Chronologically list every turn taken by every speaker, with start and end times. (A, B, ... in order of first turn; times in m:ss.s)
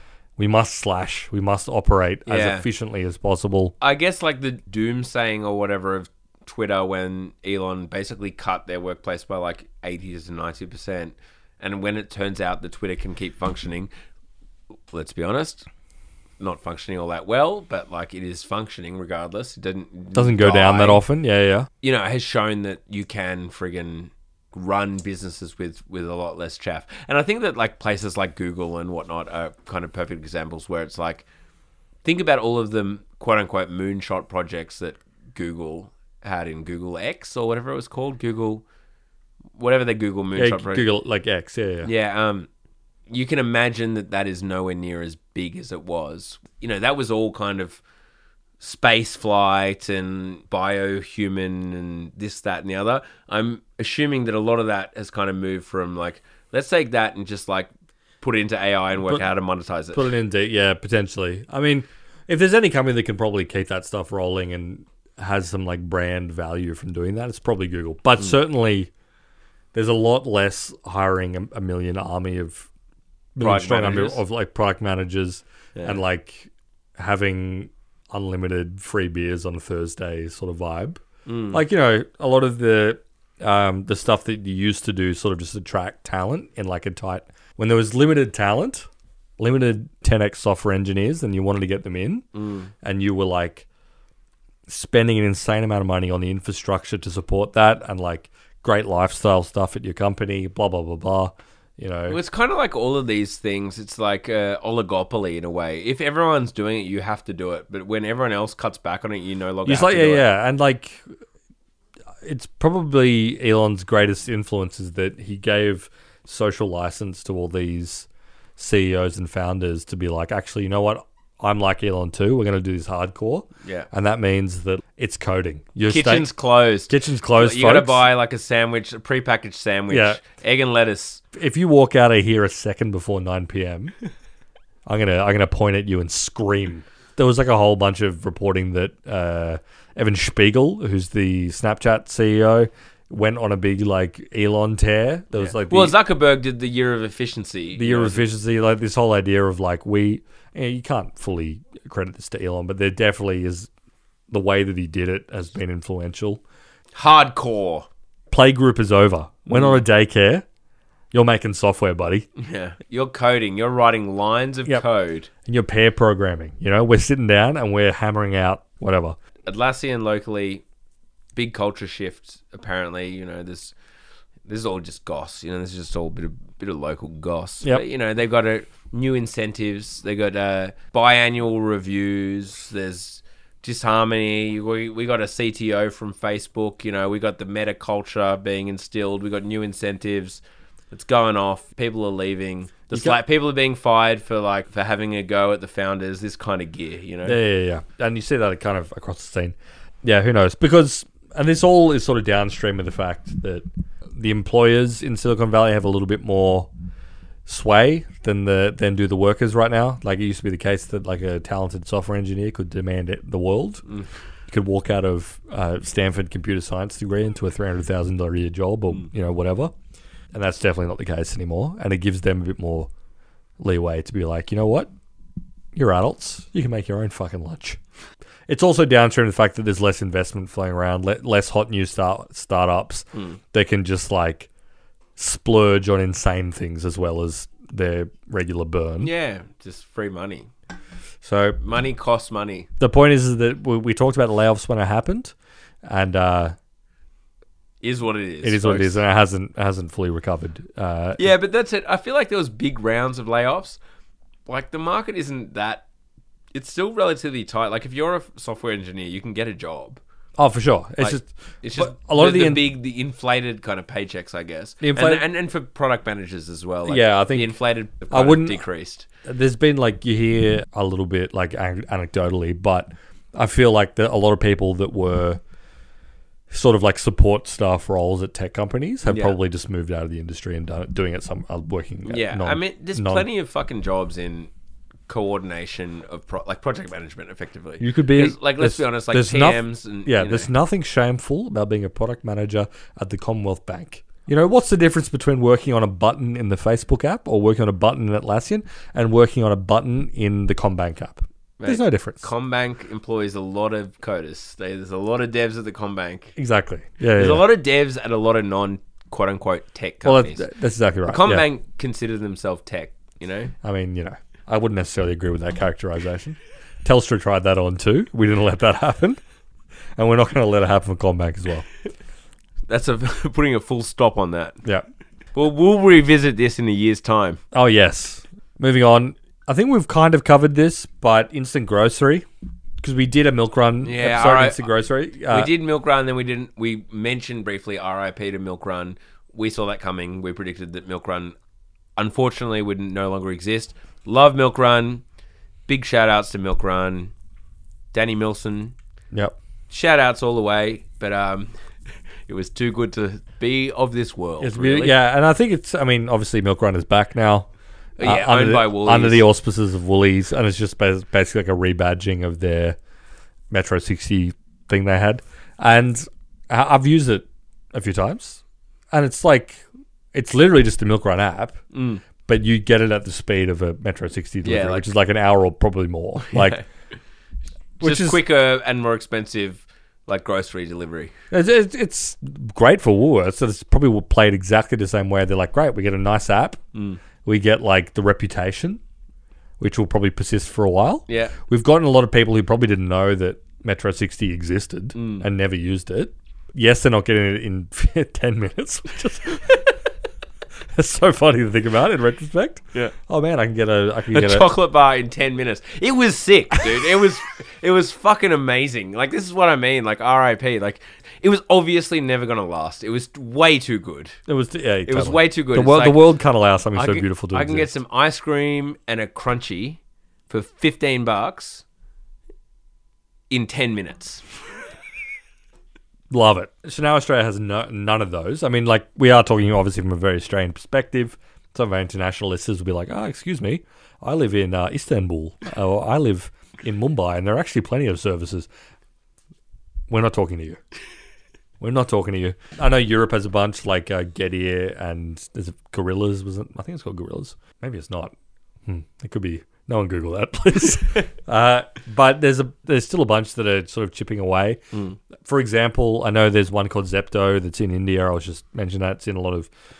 0:00.4-0:03.7 A
0:02.3-0:02.6 B
0:03.8-0:13.9 B
0:14.9-0:15.6 B
0:16.4-0:21.0 B
0:20.1-0:21.7 A
0:21.8-0:31.2 B
0:32.0-0:38.6 B
0:39.6-0:40.8 B
0:40.3-0:41.9 A
0:41.8-0:42.5 B
0:43.1-0:47.8 B
0:48.6-0:57.7 B
0:58.2-1:00.1 B
0:59.9-1:08.9 A
1:09.7-1:12.7 A
1:13.4-1:28.9 A
1:13.4-1:14.2 B
1:15.8-1:16.0 B
1:21.2-1:21.6 B
1:29.4-1:32.2 A
1:32.3-1:32.7 B
1:32.8-1:33.6 A
1:34.7-1:42.2 A
1:42.1-1:50.3 B
1:49.6-1:51.0 A
1:52.2-2:06.3 A
2:05.8-2:11.2 B
2:06.9-2:08.1 A
2:09.9-2:10.2 A
2:11.3-2:13.9 A
2:14.8-2:25.9 A
2:25.4-2:28.2 B
2:27.8-2:33.7 A
2:34.3-2:36.4 A
2:36.9-2:37.9 B
2:38.3-2:40.4 A
2:39.5-2:39.8 B
2:41.1-2:42.3 A
2:42.4-2:45.3 B
2:45.4-2:49.2 A
2:49.4-2:50.6 B
2:51.4-2:53.7 B
2:54.5-3:17.4 B
3:12.9-3:13.2 A
3:17.2-3:26.7 A
3:27.4-3:33.8 A
3:34.5-3:39.7 A
3:40.3-3:42.9 A
3:43.6-3:44.9 A
3:45.7-3:47.8 A
3:48.5-3:54.5 A
3:55.2-3:59.1 A
3:59.0-4:00.5 B
4:01.2-4:01.6 A
4:01.6-4:02.7 B
4:02.8-4:05.3 A
4:05.8-4:06.5 A
4:07.8-4:09.0 B
4:08.4-4:11.3 A
4:11.2-4:13.8 B
4:14.5-4:15.8 B
4:16.5-4:20.0 B
4:20.4-4:22.6 A
4:21.0-4:29.0 B
4:24.8-4:25.2 A
4:26.9-4:27.5 A
4:28.1-4:28.6 A
4:29.2-4:35.4 A
4:36.5-4:43.2 A
4:39.0-4:39.4 B
4:42.0-4:44.5 B
4:45.1-4:50.5 B
4:47.8-5:02.2 A
5:01.6-5:06.3 B
5:06.4-5:07.5 A
5:07.2-5:10.5 B
5:10.0-5:11.5 A
5:11.0-5:13.5 B
5:13.6-5:19.2 A
5:20.0-5:21.6 A
5:22.7-5:24.6 B
5:25.3-5:27.4 B
5:27.5-5:32.3 A
5:32.8-5:35.5 A
5:33.8-5:34.7 B
5:35.3-5:41.4 B
5:42.0-5:45.0 B
5:45.7-5:47.1 B
5:47.9-5:48.7 B
5:49.7-5:51.5 B
5:52.3-5:54.9 B
5:54.4-5:57.5 A
5:58.0-5:59.2 B
5:58.0-6:02.8 A
6:03.5-6:08.4 A
6:08.9-6:11.6 A
6:11.7-6:12.0 B
6:12.3-6:16.6 A
6:14.4-6:14.9 B
6:16.3-6:16.6 B
6:17.8-6:18.2 A
6:17.8-6:21.1 B
6:21.3-6:26.6 A
6:26.7-6:27.0 B
6:27.2-6:28.8 A
6:29.6-6:39.7 A
6:31.1-6:31.3 B
6:34.9-6:35.2 B
6:40.7-6:44.5 A
6:44.1-6:54.2 B
6:54.3-6:57.7 A
6:54.9-6:56.0 B
6:56.7-7:01.6 B
7:03.3-7:04.2 B
7:06.1-7:18.5 A
7:19.9-7:20.6 A
7:21.6-7:28.1 A
7:28.6-7:34.6 A
7:35.2-7:39.5 A